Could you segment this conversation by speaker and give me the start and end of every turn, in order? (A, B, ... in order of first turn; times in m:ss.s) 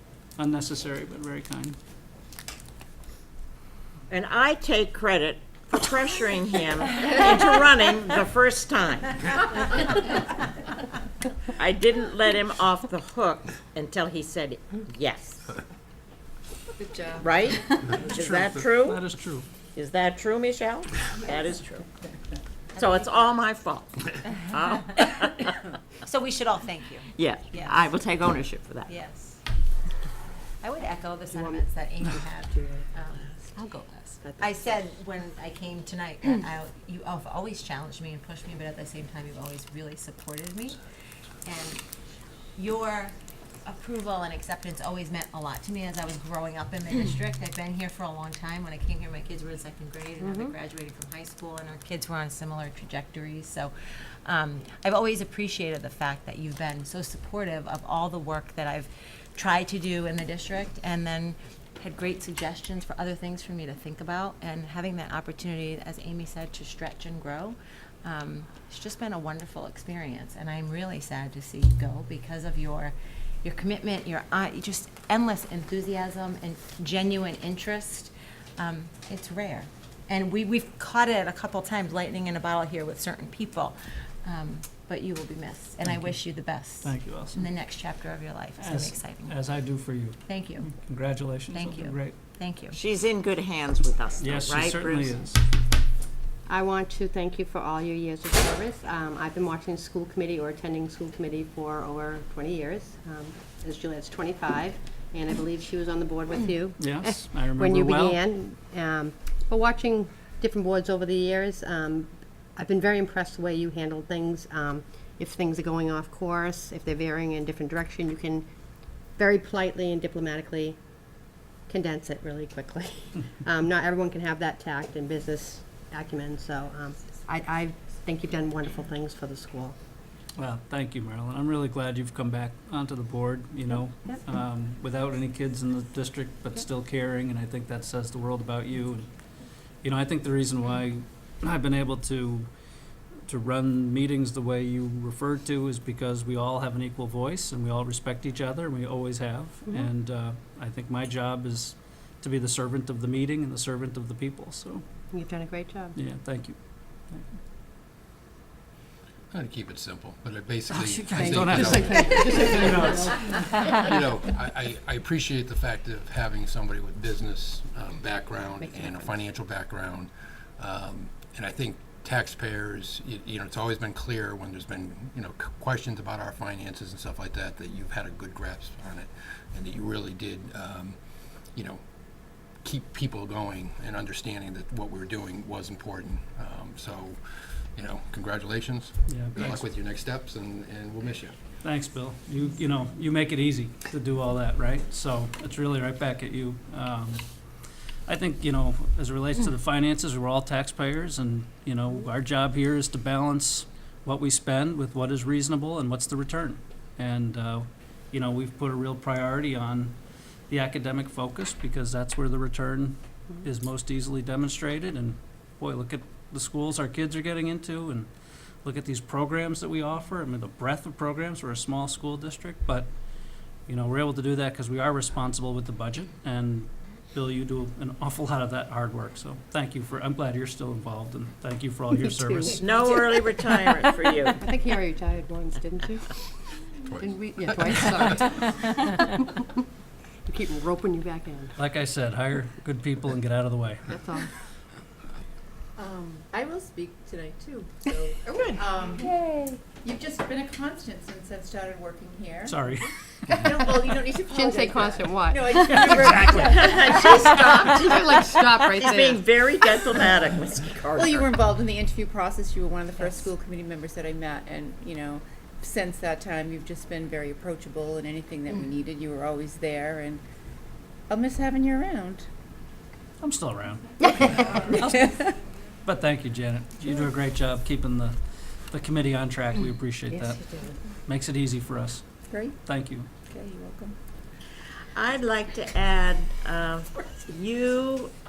0:00.4-0:01.8 A
0:04.1-0:10.2 B
0:11.5-0:15.6 B
0:16.8-0:17.9 C
0:17.2-0:19.0 B
0:17.9-0:19.5 A
0:19.8-0:21.9 B
0:22.8-0:23.4 D
0:22.8-0:25.6 B
0:26.0-0:27.9 D
0:27.1-0:28.9 B
0:28.9-0:29.4 D
0:30.6-0:40.8 D
0:31.3-0:32.9 E
0:34.2-0:34.5 E
0:41.4-0:41.8 D
0:42.6-0:53.7 D
0:50.2-0:50.5 E
0:54.2-1:29.4 D
1:25.8-1:26.2 A
1:26.8-1:27.5 A
1:28.6-1:32.2 A
1:30.3-1:30.7 D
1:31.5-1:32.8 D
1:32.7-1:35.2 B
1:34.2-1:35.4 A
1:36.5-1:58.5 E
1:46.8-1:48.2 A
1:59.2-2:00.8 E
2:01.7-2:09.8 E
2:10.4-2:19.1 A
2:19.8-2:22.5 A
2:23.3-2:34.8 A
2:35.1-2:36.0 E
2:36.0-2:36.6 A
2:39.3-2:42.7 F
2:40.7-2:43.5 A
2:41.1-2:43.2 E
2:43.8-3:01.0 F
2:48.6-2:49.2 E
3:01.6-3:01.8 F
3:02.6-3:07.2 F
3:07.8-3:11.3 F
3:09.1-3:09.6 A
3:11.6-3:17.2 A
3:18.1-3:30.0 A
3:30.5-3:38.1 A
3:38.6-3:42.9 A
3:43.7-3:52.6 A
3:52.0-3:53.2 E
3:52.5-3:54.4 B
3:54.3-3:56.2 E
3:56.9-3:57.2 F
3:57.0-3:59.6 E
4:00.3-4:01.6 E
4:01.6-4:03.9 A
4:03.9-4:04.3 E
4:05.8-4:12.6 C
4:12.5-4:12.9 A
4:13.3-4:18.9 C
4:14.3-4:15.9 E
4:15.6-4:16.8 A
4:16.4-4:21.4 B
4:17.4-4:19.2 E
4:20.9-4:30.2 C
4:31.1-4:32.3 C
4:33.2-4:35.2 A
4:34.6-4:35.3 C
4:35.8-4:40.4 A
4:41.0-4:42.1 A
4:42.3-4:42.6 C
4:42.6-4:43.1 A
4:43.3-4:44.0 C
4:45.0-4:48.1 B